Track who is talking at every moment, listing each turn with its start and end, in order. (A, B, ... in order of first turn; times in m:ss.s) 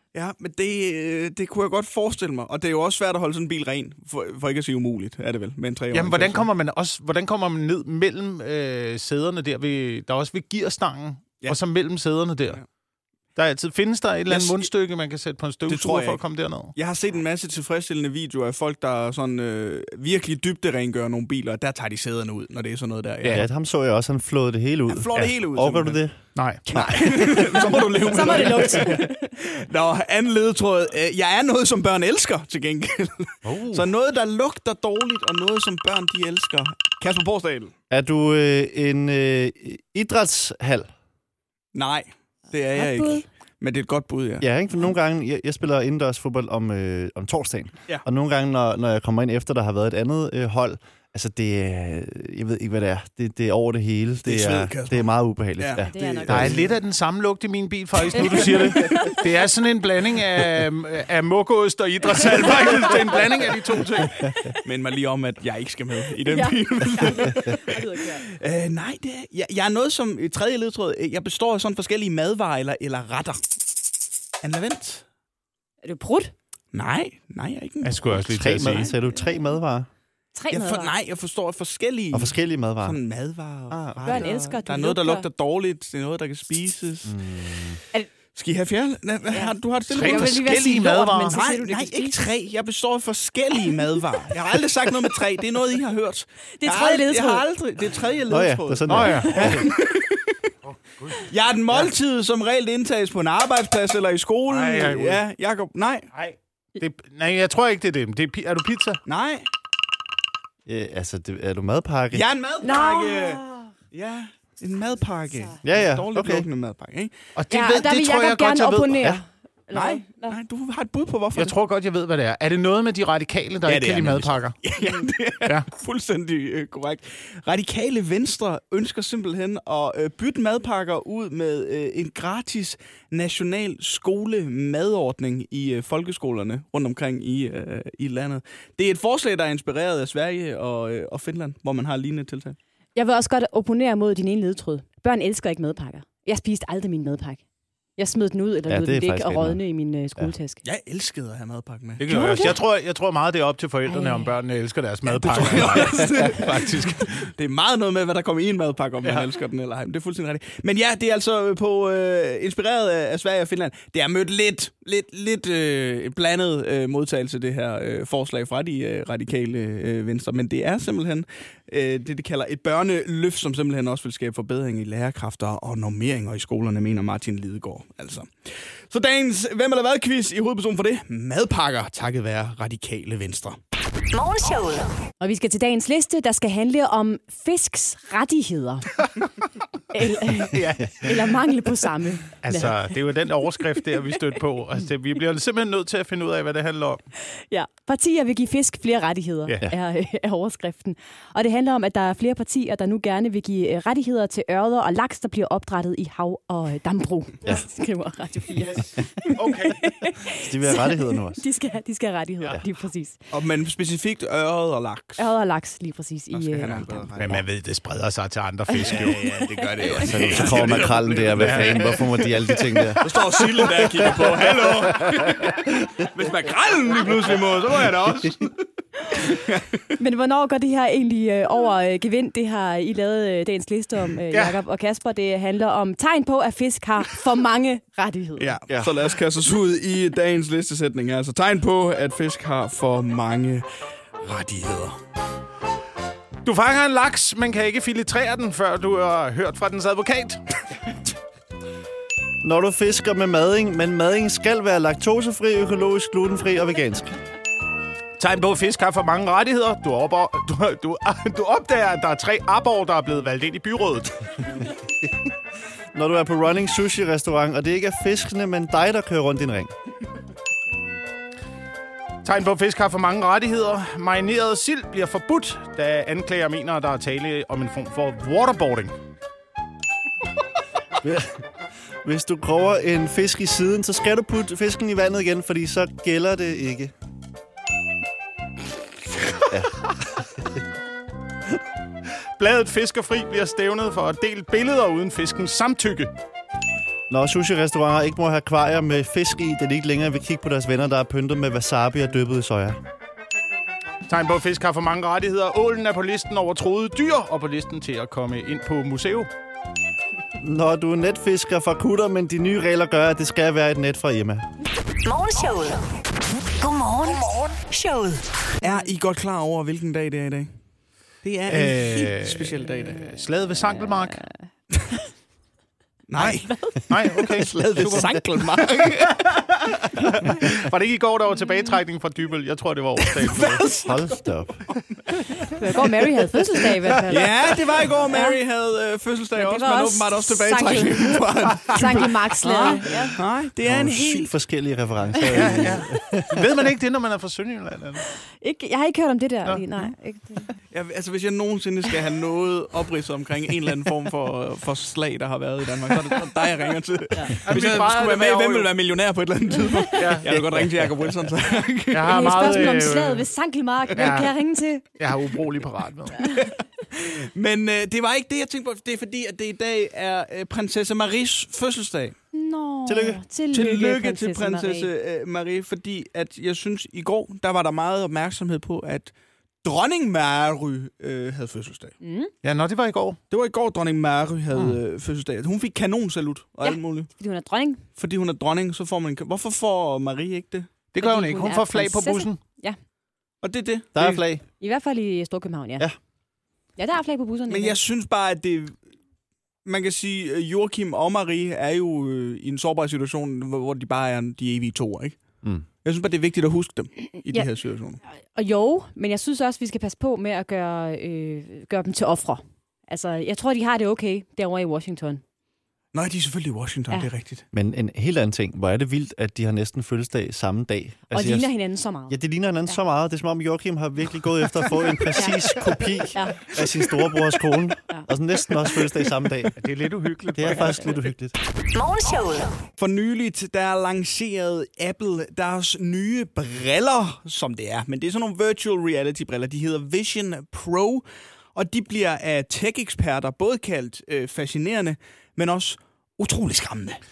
0:00.1-0:06.5 A
0:05.9-0:12.6 B
0:13.4-0:16.8 B
0:14.3-0:14.7 A
0:15.7-0:16.2 A
0:16.8-0:23.5 A
0:23.3-0:26.2 C
0:24.9-0:26.0 A
0:26.4-0:26.6 B
0:26.7-0:37.7 A
0:26.7-0:27.8 C
0:27.7-0:29.4 D
0:33.4-0:33.9 B
0:37.9-0:40.9 C
0:41.7-0:44.5 A
0:42.7-0:43.2 D
0:44.4-0:56.6 C
0:54.2-0:56.7 A
0:55.9-0:56.7 D
0:56.3-1:04.3 B
0:58.1-0:58.7 A
0:58.2-0:59.2 D
1:02.5-1:03.2 D
1:04.2-1:04.6 D
1:04.6-1:13.4 A
1:06.3-1:08.2 D
1:14.4-1:15.0 A
1:15.8-1:16.3 D
1:16.7-1:18.7 A
1:17.8-1:18.9 B
1:18.2-1:19.9 C
1:19.0-1:19.4 D
1:20.3-1:20.9 D
1:20.5-1:27.2 A
1:22.1-1:23.0 C
1:23.7-1:24.2 C
1:24.0-1:25.3 D
1:27.0-1:27.8 C
1:28.4-1:40.4 A
1:29.3-1:32.2 D
1:29.9-1:31.4 B
1:36.5-1:37.5 D
1:38.3-1:39.7 C
1:38.9-1:39.6 B
1:40.6-1:41.9 B
1:41.2-1:46.1 A
1:44.5-1:45.2 B
1:46.1-1:49.0 B
1:49.1-1:49.5 A
1:50.7-1:52.2 C
1:52.1-1:57.2 A
1:52.6-1:53.7 D
1:55.6-1:56.5 C
1:57.4-1:59.0 B
1:57.5-2:00.4 D
1:59.7-2:01.6 A
2:01.4-2:04.6 B
2:03.6-2:22.6 A
2:23.0-2:27.4 D
2:28.0-2:30.6 D
2:28.7-2:29.6 C
2:30.6-2:32.5 A
2:32.0-2:37.3 B
2:32.1-2:32.6 D
2:33.9-2:34.3 D
2:35.0-3:03.6 A
2:39.0-2:39.3 B
3:04.1-3:05.0 E
3:05.2-3:08.9 D
3:09.9-3:12.9 D
3:10.5-3:11.2 B
3:12.4-3:17.0 B
3:17.3-3:33.2 D
3:28.6-3:29.9 B
3:30.4-3:31.4 C
3:33.3-3:35.3 A
3:35.2-3:37.0 D
3:36.3-3:37.4 A
3:37.2-3:39.2 B
3:38.7-3:40.0 D
3:38.8-3:41.9 A
3:39.9-3:43.1 C
3:40.3-3:43.3 B
3:43.0-3:49.9 A
3:44.0-3:44.8 B
3:50.0-3:58.6 D
3:54.3-3:54.6 B
3:58.4-4:03.7 A
3:58.7-3:58.9 C
4:04.2-4:05.0 A
4:06.4-4:10.4 B
4:12.4-4:17.1 C
4:18.2-4:24.2 B
4:25.9-4:29.7 C
4:32.2-4:39.0 B
4:41.0-4:41.3 C
4:42.0-4:46.9 C
4:49.5-4:49.8 C
4:52.4-4:56.1 B
4:57.1-5:02.8 C
5:04.1-5:09.3 B
5:10.4-5:14.5 C
5:15.0-5:15.8 E
5:16.6-5:18.2 E
5:18.6-5:20.6 A
5:21.2-5:23.2 A
5:21.5-5:24.2 B
5:23.8-5:24.4 D
5:26.1-5:30.3 A
5:26.2-5:28.5 B
5:29.1-5:33.9 B
5:33.2-5:33.9 A
5:33.8-5:34.6 C
5:35.5-5:37.5 D
5:37.1-5:44.3 A
5:38.1-5:38.4 D
5:39.4-5:43.2 D
5:42.4-5:43.1 B
5:43.6-5:46.3 C
5:45.3-5:48.1 B
5:48.4-5:50.5 D
5:49.4-5:49.9 B
5:50.7-6:02.8 A
5:57.3-5:58.7 B
6:00.0-6:00.8 B
6:01.9-6:03.3 B
6:02.1-6:04.9 D
6:04.0-6:04.3 B
6:05.0-6:06.2 B
6:06.3-6:12.2 A
6:12.3-6:14.9 D
6:12.9-6:13.2 C
6:13.5-6:19.1 A
6:19.6-6:22.0 A
6:22.0-6:22.3 D
6:22.4-6:23.2 B
6:23.3-6:27.1 A
6:24.5-6:24.8 B
6:26.6-6:27.8 D
6:28.0-6:30.7 A
6:30.9-6:32.4 B
6:31.0-6:32.8 D
6:33.4-6:34.2 A
6:33.9-6:34.4 C
6:34.6-6:35.9 D
6:36.8-6:37.8 D
6:37.5-6:38.8 A
6:39.6-6:45.2 A
6:45.8-6:48.0 A
6:48.3-6:55.2 D
6:55.9-6:57.4 A
6:57.5-7:01.5 C
7:01.1-7:02.2 D
7:02.1-7:09.5 C
7:05.2-7:05.6 D
7:06.1-7:06.5 D
7:09.6-7:11.0 B
7:10.4-7:11.4 C
7:11.7-7:12.6 E
7:12.8-7:21.0 A
7:21.6-7:27.0 A